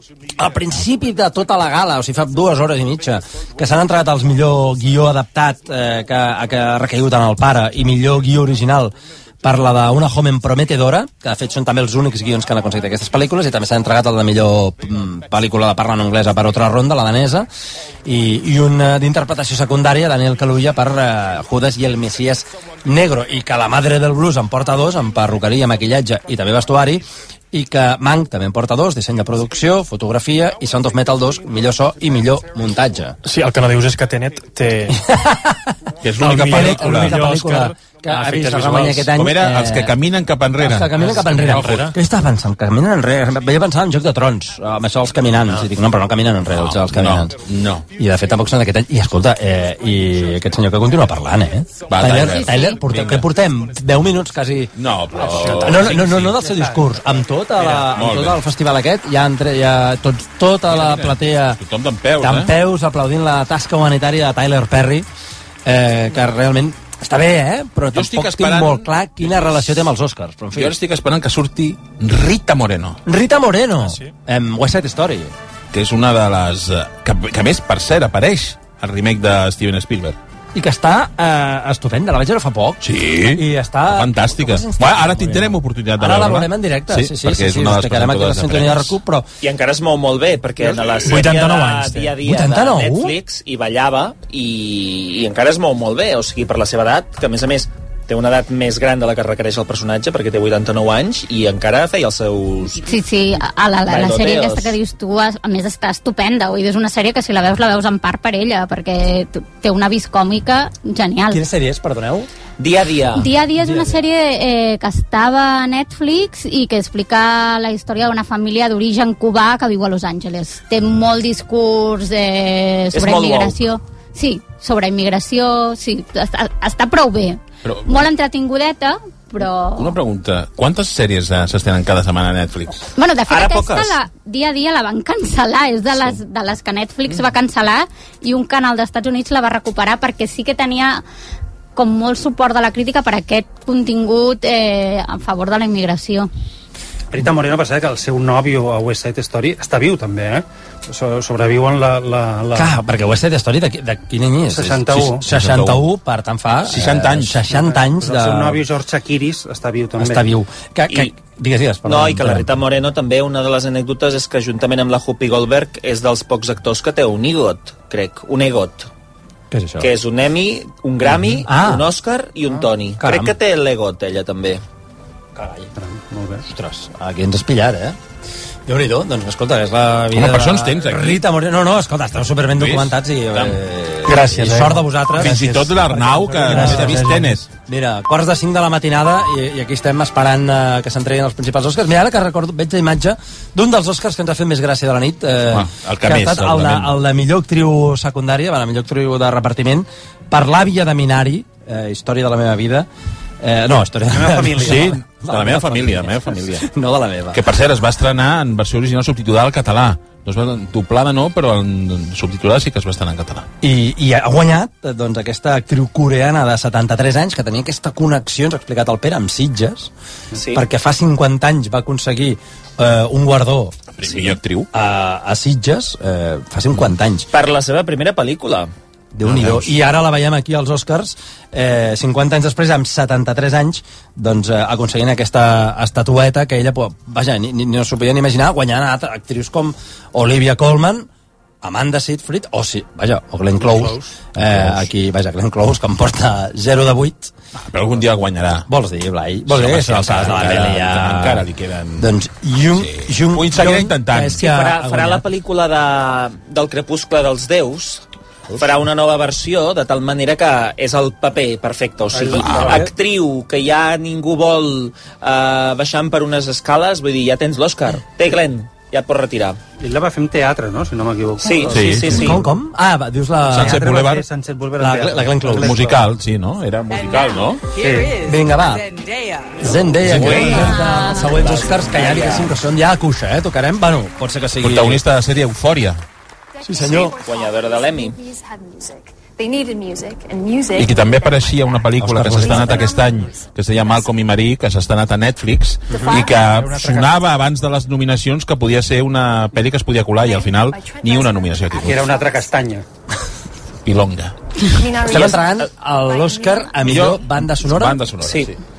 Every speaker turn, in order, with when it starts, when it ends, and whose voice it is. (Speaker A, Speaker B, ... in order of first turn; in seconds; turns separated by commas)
Speaker A: 0.4-17.5, Speaker A: 18.0-33.1, Speaker B: 33.2-35.0, Speaker A: 34.9-39.9, Speaker C: 36.0-37.2, Speaker B: 36.2-39.1, Speaker C: 39.0-41.9, Speaker A: 40.6-47.4, Speaker B: 41.0-41.9, Speaker C: 46.5-47.9, Speaker A: 47.9-61.6, Speaker C: 51.9-53.3, Speaker D: 52.1-52.8, Speaker C: 54.7-56.5, Speaker E: 55.2-55.8, Speaker E: 56.4-56.9, Speaker C: 57.6-58.4, Speaker C: 60.7-62.5, Speaker A: 62.2-65.1, Speaker A: 65.7-70.7, Speaker C: 67.9-69.7, Speaker C: 70.5-73.0, Speaker A: 73.1-75.3, Speaker B: 73.9-74.1, Speaker C: 75.7-80.2, Speaker A: 80.5-89.3, Speaker C: 82.8-89.0, Speaker F: 89.4-102.9, Speaker B: 91.1-92.1, Speaker A: 92.2-93.1, Speaker D: 102.8-111.4, Speaker F: 103.9-104.8, Speaker A: 111.3-112.3, Speaker F: 112.6-113.3, Speaker D: 113.1-130.0, Speaker A: 113.6-114.0, Speaker F: 122.9-123.6, Speaker C: 127.6-128.1, Speaker C: 129.8-132.9, Speaker D: 132.9-141.0, Speaker F: 133.3-134.0, Speaker D: 141.8-146.3, Speaker E: 147.1-152.7, Speaker A: 152.5-158.6, Speaker E: 154.5-155.2, Speaker C: 154.9-155.9, Speaker C: 156.7-157.5, Speaker E: 157.5-160.3, Speaker A: 160.0-162.5, Speaker F: 161.8-168.9, Speaker A: 169.5-169.9, Speaker F: 169.8-174.6, Speaker A: 171.1-171.9, Speaker A: 173.0-173.3, Speaker A: 175.4-175.7, Speaker E: 175.8-176.4, Speaker A: 176.4-178.0, Speaker A: 178.7-202.9, Speaker C: 180.1-181.2, Speaker C: 182.5-183.6, Speaker B: 184.1-184.9, Speaker C: 185.2-187.4, Speaker B: 186.5-187.2, Speaker C: 195.5-196.9, Speaker A: 203.4-207.4, Speaker E: 204.1-204.9, Speaker C: 204.5-206.7, Speaker C: 207.3-213.5, Speaker A: 213.6-219.9, Speaker F: 220.3-220.6, Speaker A: 220.5-223.8, Speaker C: 223.9-224.7, Speaker A: 224.7-227.3, Speaker F: 227.3-228.7, Speaker A: 229.1-241.1, Speaker C: 229.2-229.7, Speaker A: 241.6-247.3, Speaker E: 243.6-244.1, Speaker C: 244.4-244.8, Speaker C: 247.6-248.7, Speaker A: 248.7-251.4, Speaker C: 249.5-252.1, Speaker A: 252.0-255.2, Speaker C: 252.8-254.4, Speaker F: 254.4-258.0, Speaker F: 258.6-269.6, Speaker E: 262.1-262.9, Speaker C: 262.3-262.9, Speaker E: 269.8-272.3, Speaker F: 271.4-272.4, Speaker C: 271.7-272.3, Speaker A: 272.0-273.9, Speaker C: 273.5-274.2, Speaker E: 273.6-276.0, Speaker A: 274.8-275.8, Speaker C: 275.5-277.6, Speaker G: 277.0-278.1, Speaker E: 277.7-278.1, Speaker A: 278.2-278.9, Speaker A: 279.6-285.0, Speaker C: 280.0-280.7, Speaker F: 280.1-282.5, Speaker D: 280.5-281.3, Speaker C: 284.6-286.0, Speaker G: 286.5-294.1, Speaker A: 286.6-287.1, Speaker F: 287.2-288.2, Speaker C: 290.7-302.1, Speaker A: 292.0-292.9, Speaker G: 295.9-296.5, Speaker E: 296.4-297.2, Speaker G: 300.2-302.5, Speaker E: 301.9-302.9, Speaker C: 303.9-304.3, Speaker G: 304.7-306.9, Speaker A: 305.0-308.0, Speaker C: 306.8-308.6, Speaker F: 308.2-308.5